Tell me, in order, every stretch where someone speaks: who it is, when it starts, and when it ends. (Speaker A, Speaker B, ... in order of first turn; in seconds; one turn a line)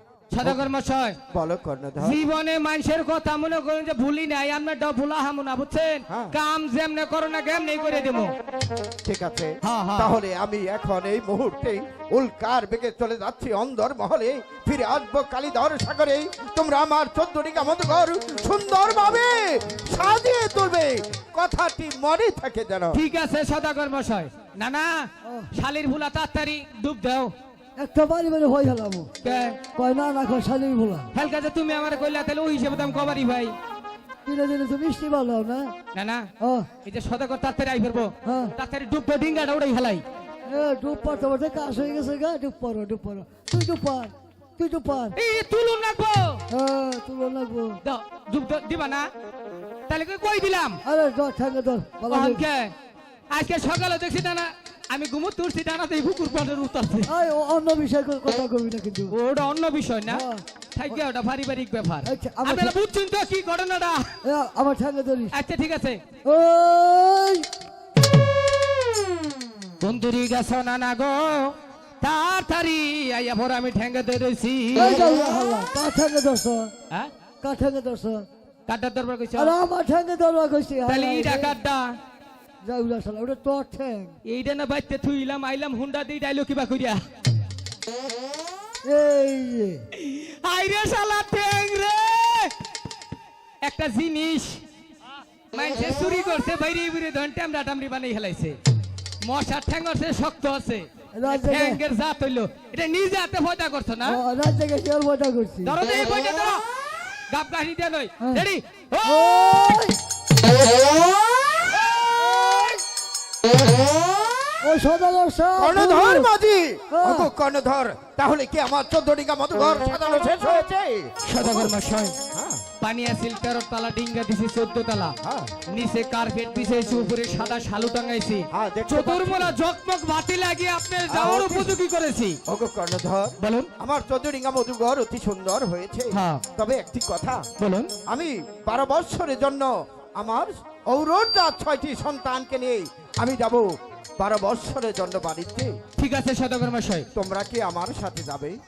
Speaker A: 0.3-1.2
Speaker B: 1.3-2.2
Speaker A: 2.0-8.3
Speaker B: 9.1-23.0
Speaker A: 9.6-10.2
Speaker A: 22.9-27.3
Speaker C: 27.8-29.1
Speaker A: 29.2-29.6
Speaker C: 29.8-31.1
Speaker A: 31.1-33.5
Speaker C: 34.3-35.7
Speaker A: 35.9-36.3
Speaker C: 36.4-36.7
Speaker A: 36.8-40.0
Speaker C: 38.2-38.5
Speaker C: 40.5-45.1
Speaker A: 45.2-46.4
Speaker C: 46.5-47.8
Speaker A: 47.8-49.1
Speaker A: 49.9-50.8
Speaker C: 50.9-52.4
Speaker A: 52.1-52.7
Speaker A: 53.3-57.1
Speaker C: 57.1-59.1
Speaker A: 59.1-64.1
Speaker C: 60.1-60.4
Speaker C: 62.0-62.8
Speaker C: 64.2-65.3
Speaker A: 65.3-66.0
Speaker C: 66.2-67.5
Speaker A: 69.8-75.1
Speaker C: 74.8-76.7
Speaker C: 77.4-78.2
Speaker A: 78.7-79.5
Speaker C: 79.4-81.5
Speaker A: 80.9-82.0
Speaker C: 82.6-84.1
Speaker A: 84.3-87.0
Speaker C: 88.8-89.8
Speaker A: 89.9-92.5
Speaker A: 93.6-94.6
Speaker A: 95.5-98.6
Speaker A: 99.2-104.2
Speaker C: 101.2-101.8
Speaker C: 104.1-105.8
Speaker A: 105.6-106.6
Speaker A: 107.3-109.2
Speaker C: 109.0-110.0
Speaker C: 112.3-112.7
Speaker C: 114.6-116.3
Speaker B: 115.6-121.7
Speaker C: 116.9-117.3
Speaker A: 121.2-122.2
Speaker B: 122.3-122.6
Speaker A: 122.8-125.2
Speaker B: 125.2-125.5
Speaker A: 125.7-132.4
Speaker B: 128.5-129.5
Speaker B: 131.1-131.7
Speaker B: 132.5-137.5
Speaker A: 133.4-133.7
Speaker A: 136.1-136.4
Speaker A: 137.6-137.9
Speaker B: 138.1-143.7
Speaker B: 144.2-145.7
Speaker A: 146.0-147.1
Speaker B: 147.1-148.6